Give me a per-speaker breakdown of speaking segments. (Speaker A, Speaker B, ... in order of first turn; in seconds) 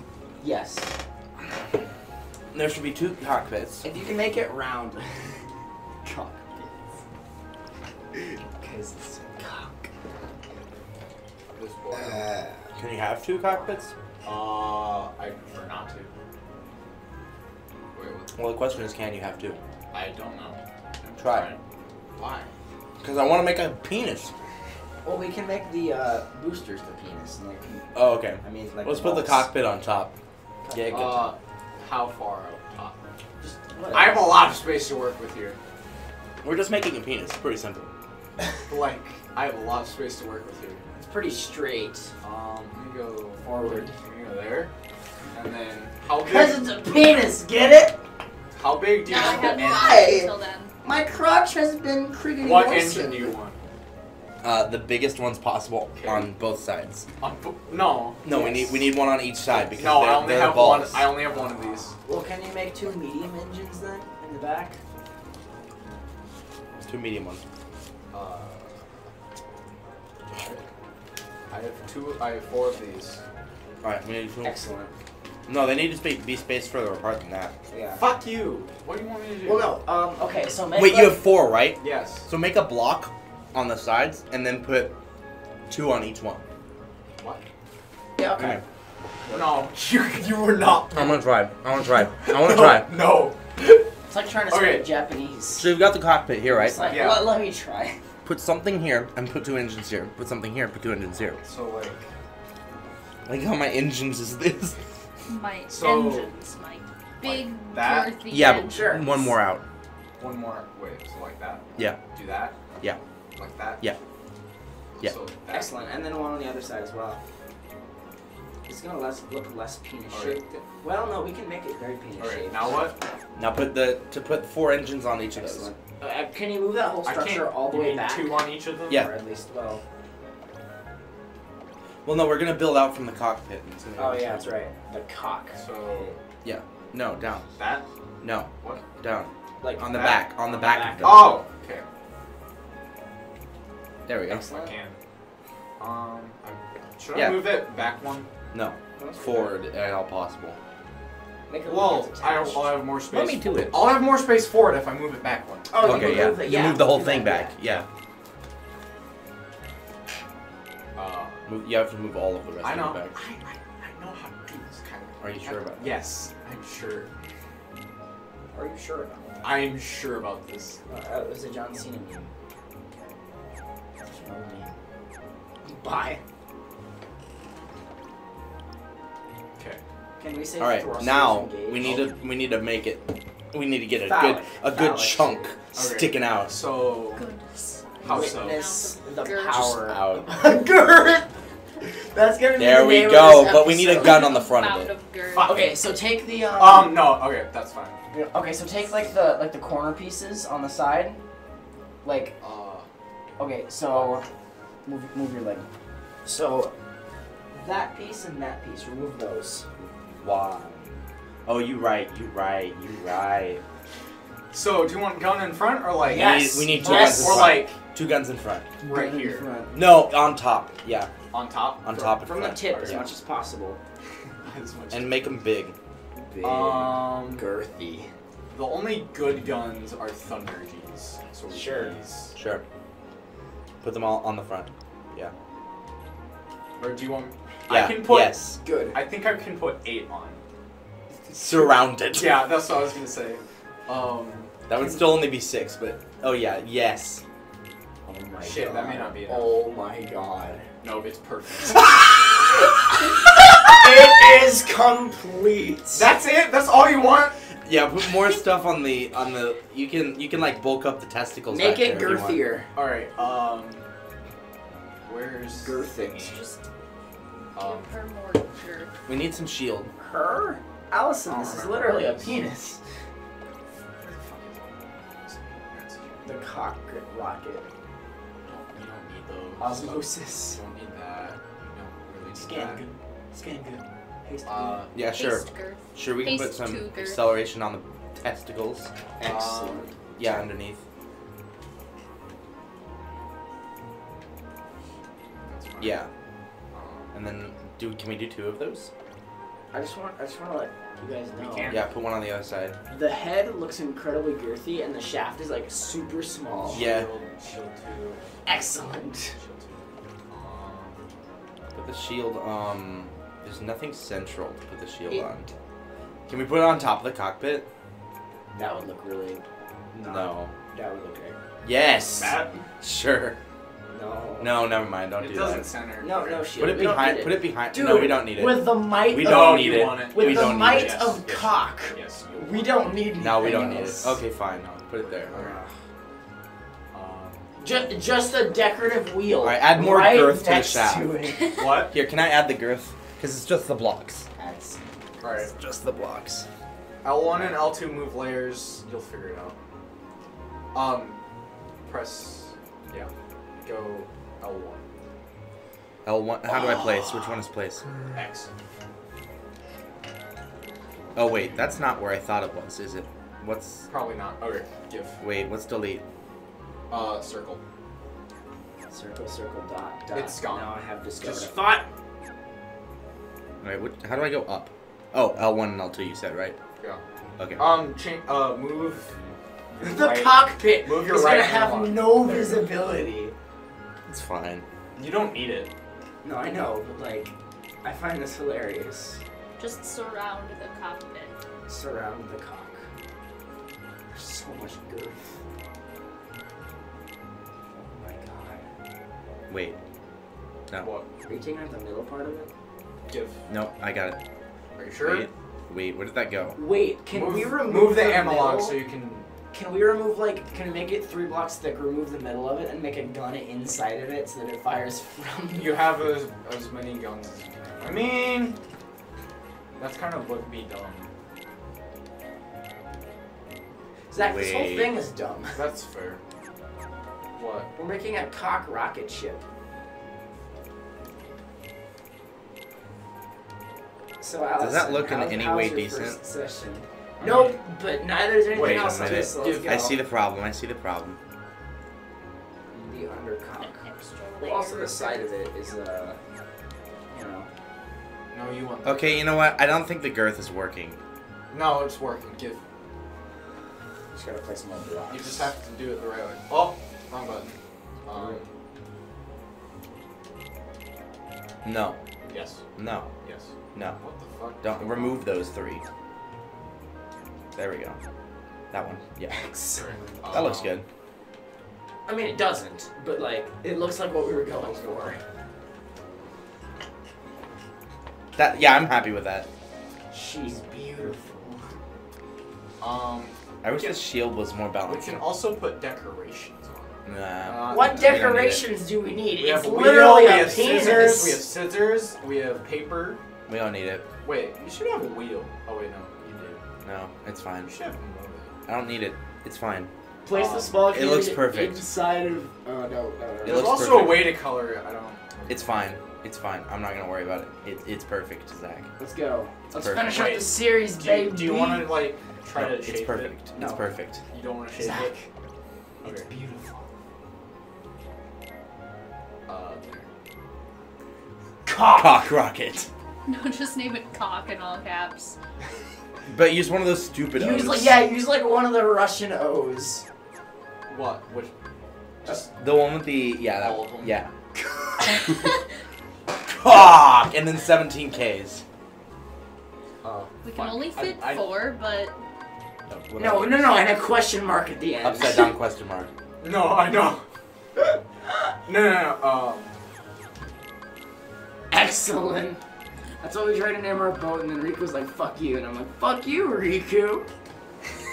Speaker A: 0.4-0.9, 3.8-6.7, 8.1-9.9, 11.9-12.7, 25.0-29.5, 30.6-31.2, 33.4-34.4, 40.9-42.1, 43.6-43.9, 46.2-48.0, 49.1-53.3, 58.2-58.9, 62.0-64.8, 74.4-74.9, 77.7-78.0, 79.4-81.2, 88.2-88.6, 89.2-89.6, 94.1-95.8, 96.5-98.0, 108.6-109.3, 115.5-117.2, 118.7-122.7, 125.3-129.8, 134.0-136.0, 139.6-141.4, 144.3-144.7, 148.9-149.6, 151.5-152.8, 155.7-157.5, 168.5-169.6, 170.9-172.3, 174.0-174.7, 175.6-176.2, 180.2-182.2, 183.9-185.6, 188.0-194.3, 195.3-197.2, 198.1-201.2, 202.0-202.3, 203.4-204.2, 204.8-205.7, 206.2-206.7, 207.5-209.7, 216.1-217.6, 218.8-219.9, 222.2-223.8, 226.2-228.1, 231.5-231.9, 238.6-239.1, 248.1-250.7, 251.7-253.1, 253.7-256.1, 261.5-262.7, 265.5-266.4, 270.0-272.8, 276.2-277.7, 279.6-280.6, 282.3-284.9, 289.2-290.3, 299.7-301.8, 302.9-306.9, 308.4-309.3, 318.5-321.4, 323.9-324.6, 326.0-334.2, 335.3-335.7, 337.6-341.5, 344.4-346.4, 368.9-371.9, 379.8-383.3, 386.2-389.2, 391.7-392.8, 394.1-395.2, 397.7-398.7, 401.2-402.5, 406.5-409.0, 409.5-416.0, 417.7-418.1, 424.1-425.6, 427.7-429.4, 434.2-440.0, 442.7-443.8, 444.4-446.2, 447.1-447.5, 454.1-455.5, 458.1-458.4, 469.3-470.2, 472.1-475.2, 480.1-481.7, 487.6-491.4, 500.2-504.1, 509.0-512.1, 513.5-513.8, 514.7-515.2, 516.0-516.9, 521.6-522.3, 527.3-530.0, 534.5-535.5, 543.2-545.5, 551.7-552.6, 553.2-557.3
Speaker B: 2.5-3.9, 12.7-13.9, 18.3-19.6, 21.2-21.5, 23.0-24.3, 27.9-30.1, 30.7-31.3, 36.4-37.9, 54.4-57.0, 58.2-61.1, 66.8-67.4, 73.8-74.5, 75.5-77.5, 80.8-85.0, 85.7-86.4, 88.4-88.6, 90.9-93.0, 95.5-96.9, 98.2-101.4, 103.2-104.8, 108.3-109.6, 111.8-112.0, 123.3-125.7, 132.0-134.6, 136.4-137.5, 138.2-141.4, 144.1-144.4, 147.1-147.6, 148.5-150.6, 153.1-153.9, 155.8-157.9, 161.5-163.1, 165.2-166.0, 180.6-186.6, 189.5-190.3, 192.6-194.9, 209.8-210.9, 211.4-213.6, 216.1-218.7, 219.7-221.1, 221.8-223.1, 224.9-225.7, 232.3-232.6, 233.8-235.3, 237.7-238.6, 241.3-242.5, 244.7-247.2, 257.6-262.4, 269.1-269.9, 284.9-288.9, 290.2-290.8, 295.8-296.1, 297.1-298.9, 301.7-302.8, 306.7-307.1, 311.7-315.5, 316.3-317.7, 320.0-320.5, 321.6-323.4, 324.4-325.7, 326.6-331.2, 333.2-335.4, 339.4-341.1, 341.8-344.3, 347.3-347.7, 356.0-357.9, 361.1-363.9, 365.2-366.0, 373.6-376.6, 377.4-377.8, 384.1-384.6, 399.5-399.8, 403.5-404.2, 405.0-406.6, 424.1-425.0, 434.6-436.2, 438.5-441.2, 448.8-451.0, 461.6-462.0, 462.8-463.1, 463.7-464.0, 464.6-465.8, 467.5-468.0, 468.7-469.3, 470.3-470.8, 478.3-479.5, 483.6-485.2, 487.0-488.7, 493.5-494.0, 496.8-497.7, 498.6-499.9, 500.9-501.8, 503.4-504.4, 505.5-508.9, 509.7-510.2, 512.5-514.2, 521.9-522.9, 526.3-528.0, 532.5-534.3, 536.5-538.6, 542.9-543.8, 545.0-546.1
Speaker C: 11.5-12.3, 14.2-16.1, 17.9-18.3, 19.9-21.6, 22.1-22.5, 30.9-33.0, 33.9-35.6, 38.7-40.8, 42.2-44.7, 45.3-46.6, 48.5-50.0, 52.4-53.6, 55.9-56.3, 57.2-58.2, 59.8-62.0, 68.1-68.8, 70.3-70.6, 71.5-73.2, 78.0-79.8, 81.8-82.3, 87.2-87.4, 89.3-91.2, 92.1-93.9, 94.5-94.9, 96.8-97.3, 101.4-102.1, 105.7-106.3, 107.2-108.3, 110.2-112.6, 113.3-113.8, 115.0-115.7, 120.1-120.6, 122.2-123.0, 127.0-129.0, 135.5-136.2, 137.6-137.8, 138.6-138.8, 139.9-140.3, 141.0-141.8, 144.4-145.0, 145.8-148.3, 151.6-156.3, 160.9-161.4, 162.6-167.1, 169.4-170.8, 179.6-179.8, 185.7-187.3, 188.0-188.7, 196.5-198.0, 202.4-202.9, 214.5-217.8, 218.8-219.4, 221.3-223.0, 224.4-225.4, 226.4-227.5, 228.5-232.3, 236.8-238.4, 238.9-240.4, 241.6-244.5, 248.4-249.6, 250.8-252.0, 255.9-257.4, 262.7-263.8, 265.0-265.8, 267.6-267.9, 271.2-272.4, 273.9-276.2, 278.4-282.8, 284.4-284.9, 289.2-289.9, 295.4-296.0, 296.7-297.1, 301.4-301.9, 306.6-308.2, 309.3-311.0, 322.1-322.6, 325.2-326.5, 329.2-332.9, 335.0-335.6, 336.9-337.5, 341.5-341.9, 345.2-345.5, 347.0-349.6, 350.7-351.2, 351.9-354.8, 356.5-357.4, 358.1-358.5, 363.9-365.2, 366.9-367.6, 370.1-371.5, 377.6-382.7, 384.9-385.7, 400.8-401.1, 403.1-403.4, 404.8-405.3, 407.1-409.3, 415.5-418.6, 419.8-421.1, 425.5-426.2, 427.4-427.7, 437.2-437.6, 438.5-439.7, 448.3-449.5, 451.5-452.6, 455.1-458.5, 462.3-462.6, 463.2-465.2, 469.7-470.8, 482.8-484.0, 484.8-488.3, 489.4-493.2, 494.2-496.6, 497.6-498.5, 500.3-500.8, 503.4-505.8, 510.0-513.7, 514.3-515.3, 516.0-516.3, 519.5-520.1, 530.9-531.5, 532.2-532.5, 533.5-534.3, 540.0-541.5, 546.4-547.2, 548.6-549.7
Speaker D: 49.0-50.7, 105.3-109.0, 187.1-189.8, 193.9-195.7, 266.0-266.6, 267.5-268.9, 285.1-287.4, 389.6-391.3, 443.6-445.3, 523.2-525.4, 540.4-542.2